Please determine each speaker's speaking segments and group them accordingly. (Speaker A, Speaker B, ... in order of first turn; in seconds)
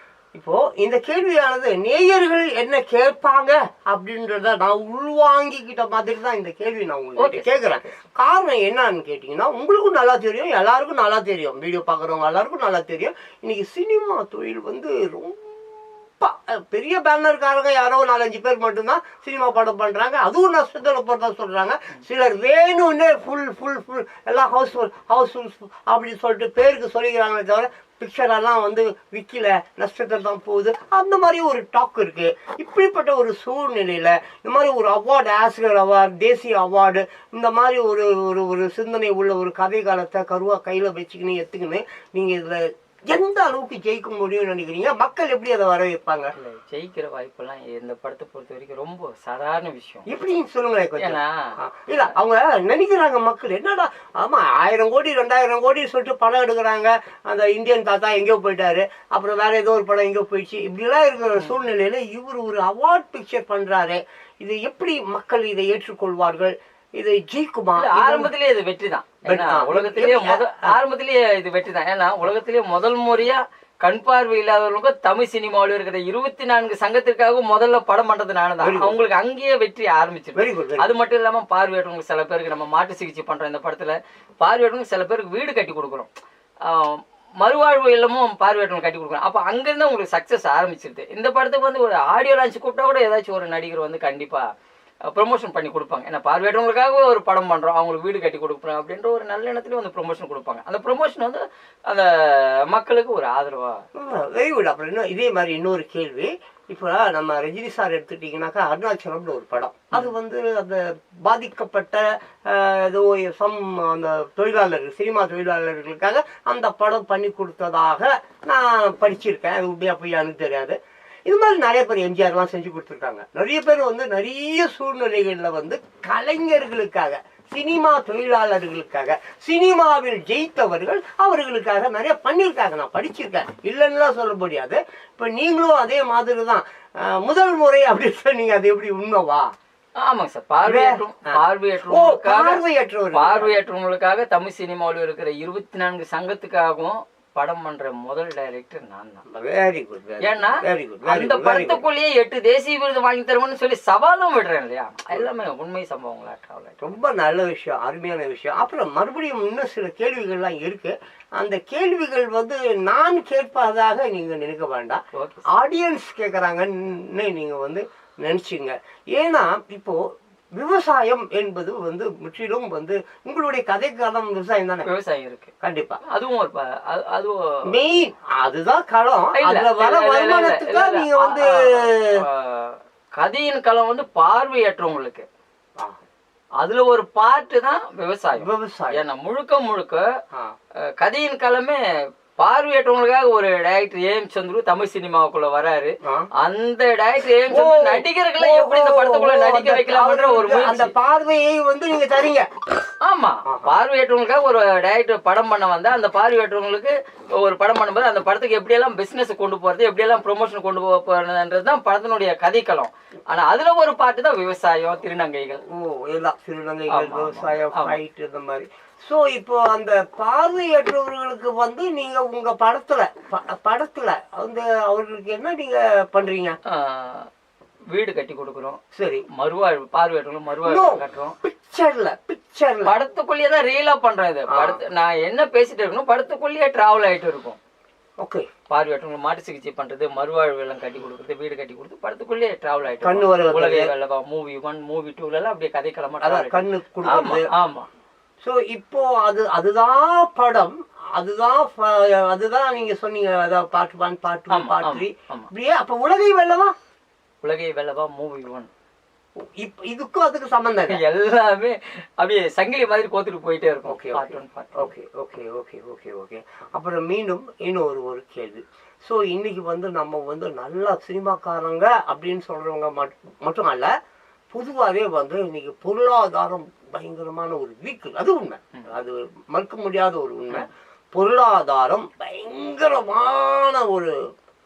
Speaker A: 0.3-46.3, 50.0-68.3, 69.2-70.7, 78.6-79.0, 80.3-80.9, 104.0-139.5, 140.6-143.6, 149.3-151.8, 156.8-170.0, 170.6-174.9, 175.6-176.0, 177.6-182.2, 188.3-189.0, 197.5-202.4, 203.4-203.7, 215.6-226.6, 228.9-229.2, 230.6-232.9, 234.5-234.8, 238.2-238.4, 243.0-243.9, 246.2-247.5, 248.4-256.7, 259.4-261.0, 263.9-273.9, 274.5-284.1
Speaker B: 7.2-8.0, 46.4-50.0, 51.0-51.3, 67.8-86.1, 86.6-94.4, 95.1-103.8, 140.0-142.6, 143.1-149.2, 150.2-156.8, 165.1-165.5, 174.8-175.5, 176.0-177.8, 179.4-185.2, 186.6-190.0, 190.8-191.8, 192.4-200.9, 203.0-215.6, 216.9-218.0, 226.7-227.3, 227.9-228.8, 229.3-231.3, 232.8-237.6, 238.7-247.9, 254.5-255.5, 257.4-258.7, 260.9-264.9